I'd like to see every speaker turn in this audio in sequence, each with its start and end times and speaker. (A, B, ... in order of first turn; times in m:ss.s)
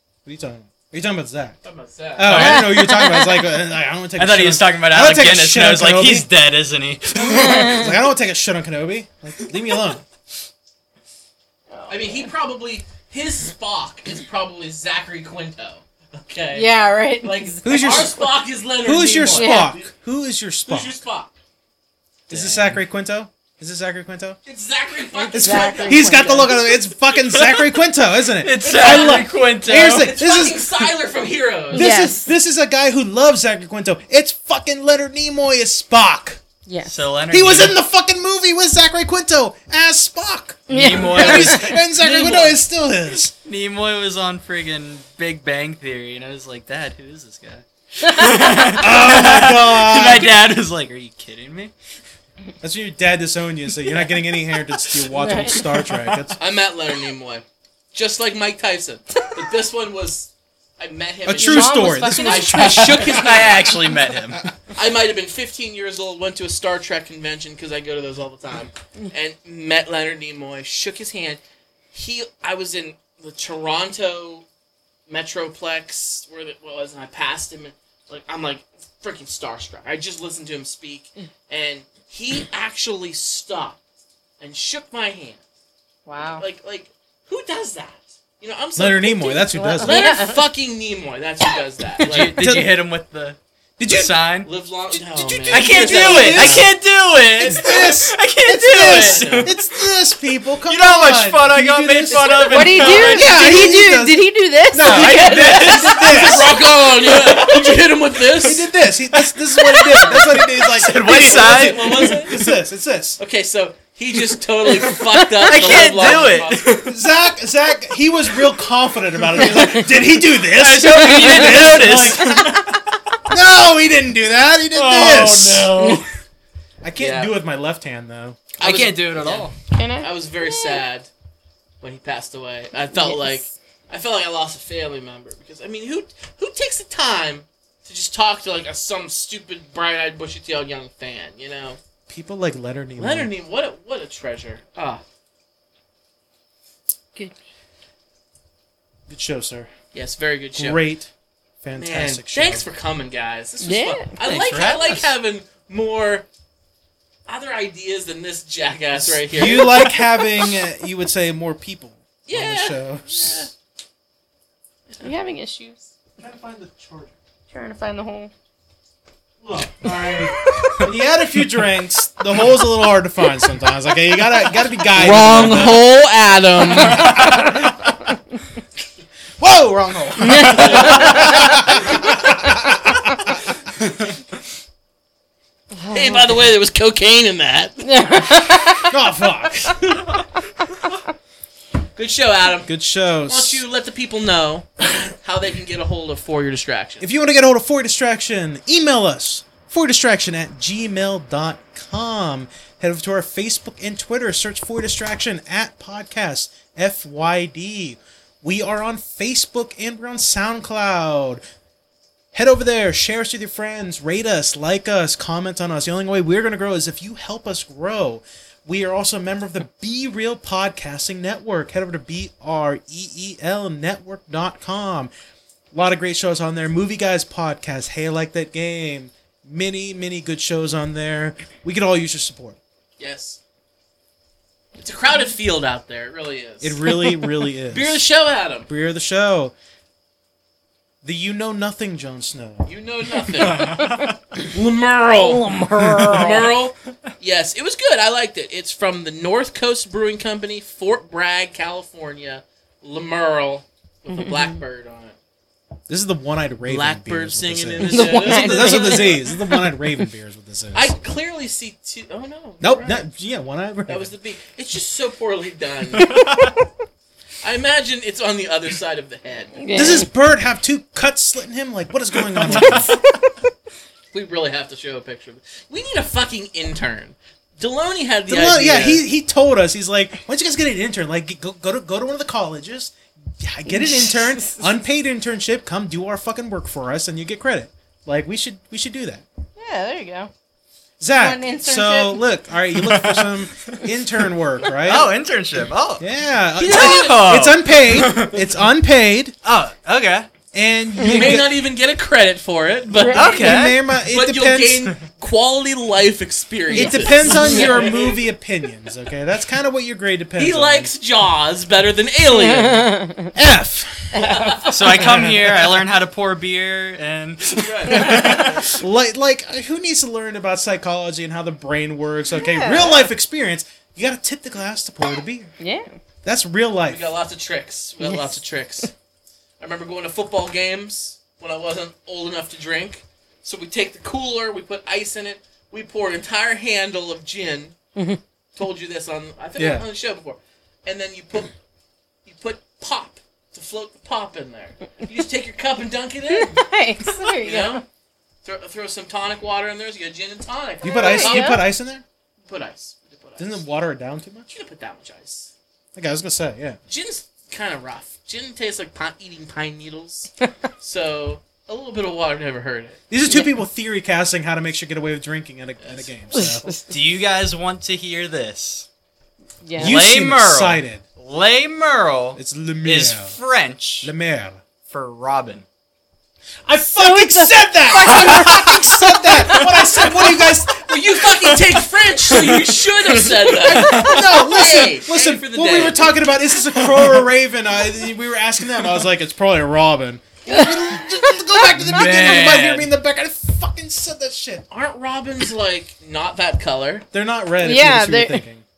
0:00.2-0:01.6 A
0:01.6-0:02.6 B
0:02.2-0:06.3 A
0:02.2-0:02.6 C
0:02.3-0:03.4 D
0:04.2-0:07.9 C
0:07.3-0:07.7 D
0:07.3-0:10.0 A
0:11.7-0:12.3 D
0:11.9-0:19.9 B
0:16.5-0:18.2 D
0:17.6-0:18.2 A
0:18.8-0:21.0 A
0:19.3-0:19.8 D
0:20.7-0:21.3 B
0:22.3-0:24.4 A
0:22.3-0:22.8 C
0:24.4-0:26.5 B
0:25.1-0:26.5 D
0:25.3-0:30.9 A
0:27.1-0:27.8 C
0:28.4-0:30.2 C
0:28.6-0:31.9 B
0:31.7-0:32.3 D
0:31.7-0:36.4 A
0:36.6-0:37.0 D
0:36.8-0:37.8 C
0:37.3-0:43.3 A
0:40.7-0:41.6 D
0:40.7-0:42.6 C
0:43.4-0:51.7 C
0:48.0-0:48.6 D
0:48.8-0:50.3 A
0:52.6-0:56.4 A
0:55.1-0:55.6 D
0:56.4-1:03.7 B
1:01.2-1:03.6 A
1:01.4-1:03.0 D
1:02.9-1:04.6 C
1:04.7-1:11.4 B
1:11.9-1:14.4 B
1:15.1-1:23.8 B
1:24.4-1:25.4 B
1:26.0-1:26.4 D
1:26.2-1:32.4 B
1:28.8-1:30.2 A
1:29.4-1:30.4 D
1:32.0-1:34.5 C
1:32.1-1:32.8 A
1:33.8-1:34.1 A
1:34.4-1:36.6 B
1:34.9-1:36.7 A
1:35.5-1:39.9 C
1:35.8-1:36.6 D
1:37.4-1:46.7 A
1:38.8-1:39.5 B
1:40.6-1:43.7 C
1:42.2-1:43.1 B
1:42.4-1:46.0 D
1:44.8-1:47.8 C
1:45.6-1:48.7 B
1:47.4-1:47.7 A
1:48.4-1:53.2 A
1:49.1-1:52.1 C
1:51.0-1:52.3 B
1:53.2-1:56.7 B
1:54.6-1:56.9 C
1:55.6-2:02.6 A
1:59.3-2:03.0 C
1:59.5-1:59.8 D
2:01.1-2:01.6 D
2:03.3-2:05.8 A
2:04.7-2:06.0 C
2:05.8-2:06.0 D
2:06.8-2:08.4 A
2:07.0-2:07.4 B
2:08.6-2:11.1 B
2:08.6-2:09.5 C
2:09.7-2:10.8 D
2:11.8-2:21.8 B
2:12.9-2:13.5 D
2:22.1-2:23.3 A
2:23.0-2:25.0 B
2:29.1-2:29.7 A
2:29.9-2:30.8 B
2:30.5-2:31.1 A
2:31.6-2:32.6 A
2:31.8-2:36.3 B
2:33.6-2:34.1 D
2:34.2-2:35.0 C
2:34.3-2:35.0 A
2:37.3-2:39.8 B
2:38.9-2:43.5 A
2:39.4-2:40.0 C
2:42.2-2:43.5 B
2:45.0-2:45.9 D
2:46.2-2:47.2 A
2:47.5-2:48.3 D
2:49.4-2:55.8 A
2:50.0-2:50.9 C
2:54.9-2:57.3 B
2:56.8-2:57.3 C
2:56.8-2:57.8 A
2:59.4-3:03.4 A
3:00.2-3:02.5 D
3:00.4-3:00.6 C
3:00.6-3:01.3 B
3:05.7-3:06.3 D
3:05.9-3:08.4 B
3:07.8-3:08.9 D
3:08.9-3:09.7 A
3:09.6-3:10.0 B
3:12.0-3:12.7 B
3:12.6-3:13.6 A
3:13.3-3:17.0 B
3:17.0-3:31.4 A
3:32.3-3:45.1 A
3:45.7-3:52.6 A
3:53.0-3:53.4 B
3:54.7-3:56.8 B
3:56.6-3:58.0 A
3:57.7-3:58.7 B
3:58.7-3:59.5 A
4:01.0-4:02.7 A
4:02.7-4:05.5 B
4:03.5-4:04.0 D
4:03.5-4:04.1 C
4:05.2-4:06.5 D
4:05.8-4:06.1 A
4:06.0-4:15.1 B
4:14.2-4:14.4 D
4:15.9-4:20.9 A
4:16.7-4:19.2 B
4:17.8-4:20.0 D
4:20.7-4:23.1 B
4:22.6-4:24.1 A
4:23.9-4:26.1 B
4:25.9-4:26.6 C
4:27.4-4:29.6 B
4:29.6-4:30.1 D
4:29.7-4:32.9 A
4:32.3-4:32.9 C
4:32.7-4:33.3 D
4:34.1-4:39.0 B
4:38.3-4:49.2 A
4:43.7-4:44.7 D
4:49.6-4:50.3 D
4:51.0-4:55.1 A
4:51.1-4:52.2 D
4:52.7-4:53.9 C
4:54.8-4:56.0 C
4:56.0-4:59.3 A
4:56.6-4:57.5 B
4:56.6-4:58.5 C
4:59.4-5:00.3 C
5:00.5-5:01.6 A
5:01.0-5:01.3 D
5:01.0-5:08.2 B
5:02.9-5:03.4 D
5:03.1-5:03.8 C
5:03.2-5:04.9 A
5:06.7-5:07.9 D
5:06.7-5:10.9 A
5:10.4-5:13.0 B
5:12.3-5:13.3 D
5:13.3-5:14.3 A
5:14.1-5:14.7 D
5:14.1-5:15.0 B
5:14.7-5:18.8 C
5:15.0-5:15.4 A
5:17.5-5:18.7 B
5:17.9-5:25.5 A
5:18.0-5:18.3 D
5:22.3-5:23.1 D
5:25.6-5:25.9 D
5:26.2-5:27.1 A
5:26.8-5:28.9 B
5:28.0-5:28.9 D
5:29.6-5:37.7 B
5:38.6-5:41.5 B
5:39.6-5:39.8 A
5:42.2-5:46.6 B
5:46.3-5:47.8 D
5:47.4-5:47.8 B
5:48.4-5:51.6 B
5:50.8-5:52.0 A
5:50.8-5:51.6 D
5:52.5-5:53.6 B
5:53.4-5:54.5 A
5:54.5-5:55.5 B
5:55.9-5:56.8 A
5:56.9-6:03.0 B
6:03.1-6:06.7 A
6:03.3-6:03.6 D
6:05.8-6:06.1 B
6:06.3-6:06.8 D
6:06.8-6:08.9 C
6:09.6-6:10.0 D
6:09.8-6:14.1 C
6:09.8-6:11.0 A
6:12.4-6:13.3 A
6:14.0-6:14.6 A
6:14.8-6:15.6 C
6:16.6-6:21.6 A
6:16.9-6:18.3 D
6:17.9-6:20.1 C
6:20.8-6:26.0 B
6:23.6-6:34.6 A
6:23.7-6:24.1 D
6:23.7-6:24.2 C
6:30.5-6:31.6 D
6:31.7-6:32.9 C
6:34.7-6:37.0 B
6:37.1-6:38.6 A
6:37.6-6:38.4 D